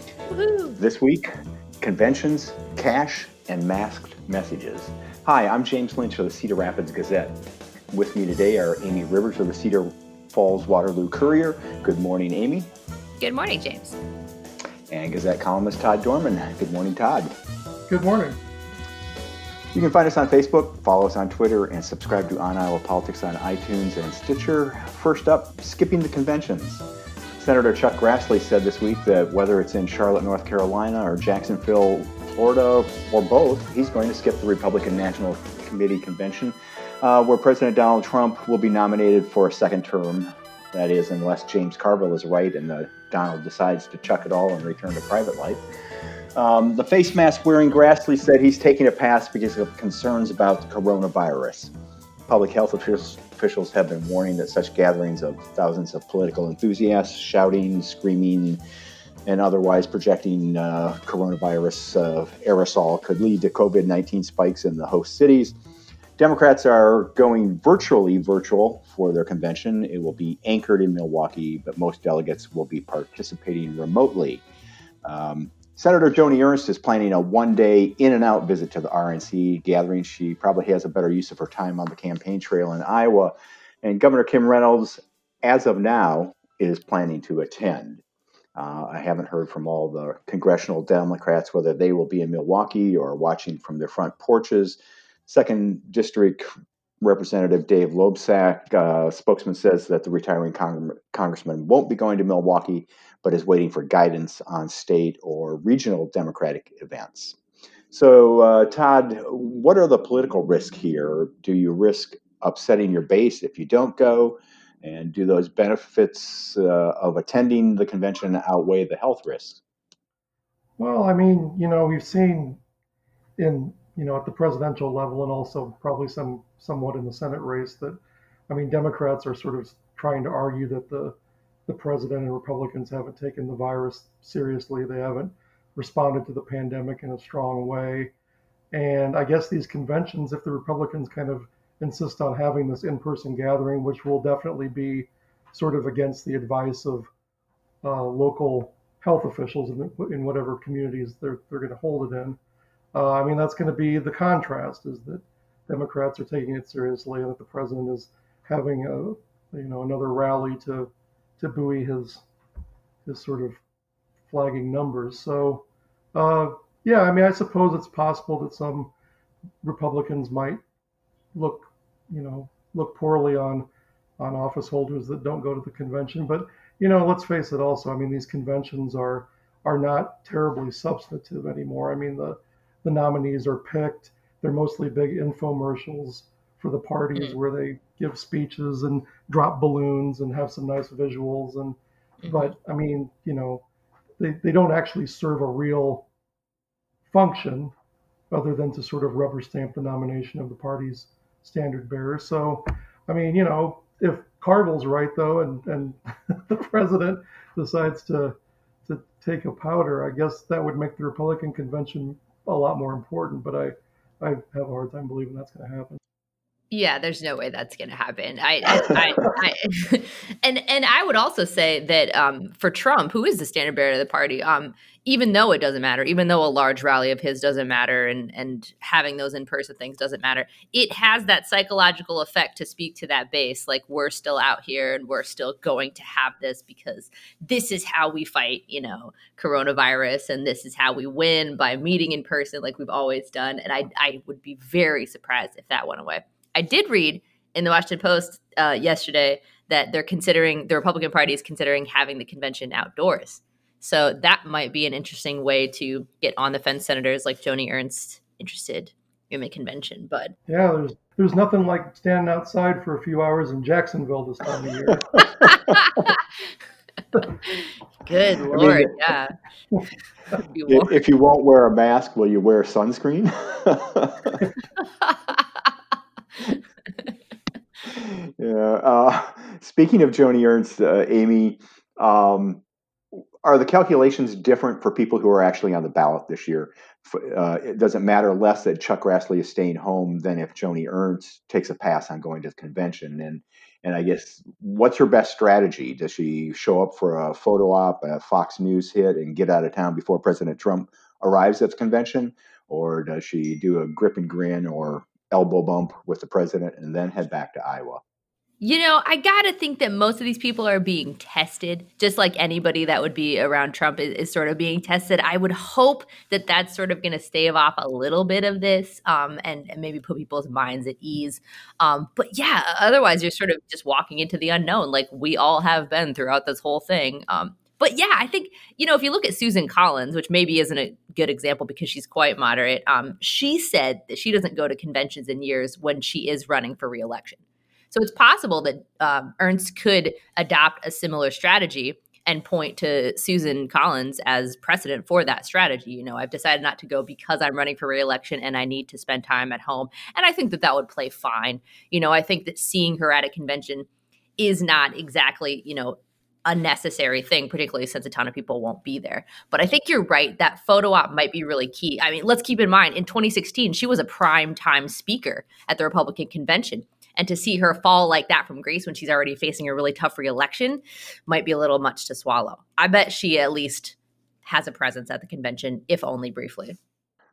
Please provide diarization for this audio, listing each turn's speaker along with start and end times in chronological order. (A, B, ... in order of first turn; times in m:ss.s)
0:00.3-0:00.8 A
0:00.8-0:01.3 B
0:01.8-0:07.4 B
0:07.9-0:12.7 B
0:13.2-0:14.0 A
0:14.9-0:17.3 B
0:17.9-0:18.4 C
0:19.7-0:26.8 B
0:27.4-0:45.6 B
0:46.4-0:51.7 B
0:52.3-0:58.6 B
0:59.3-1:05.6 B
1:06.2-1:14.4 B
1:15.0-1:28.0 B
1:28.6-1:36.5 B
1:37.0-1:47.4 B
1:47.9-1:59.6 B
2:00.8-2:02.6 C
2:03.4-2:11.2 C
2:11.7-2:18.1 C
2:18.7-2:27.1 C
2:27.8-2:32.4 C
2:32.9-2:42.2 C
2:43.0-2:43.6 C
2:44.3-2:48.9 C
2:49.6-2:50.6 C
2:51.4-2:53.7 C
2:54.2-3:13.6 C
3:12.2-3:12.5 A
3:14.2-3:16.1 C
3:17.1-3:17.7 C
3:18.3-3:36.0 C
3:36.7-4:20.4 A
4:20.5-4:25.2 C
4:25.8-4:26.1 A
4:28.1-4:29.3 A
4:28.4-4:28.9 C
4:28.6-4:28.9 B
4:30.4-4:31.0 A
4:30.7-4:34.4 B
4:37.9-4:42.6 B
4:43.1-5:08.0 B
5:08.6-5:37.4 A
5:37.9-5:53.9 A
5:54.4-6:16.8 A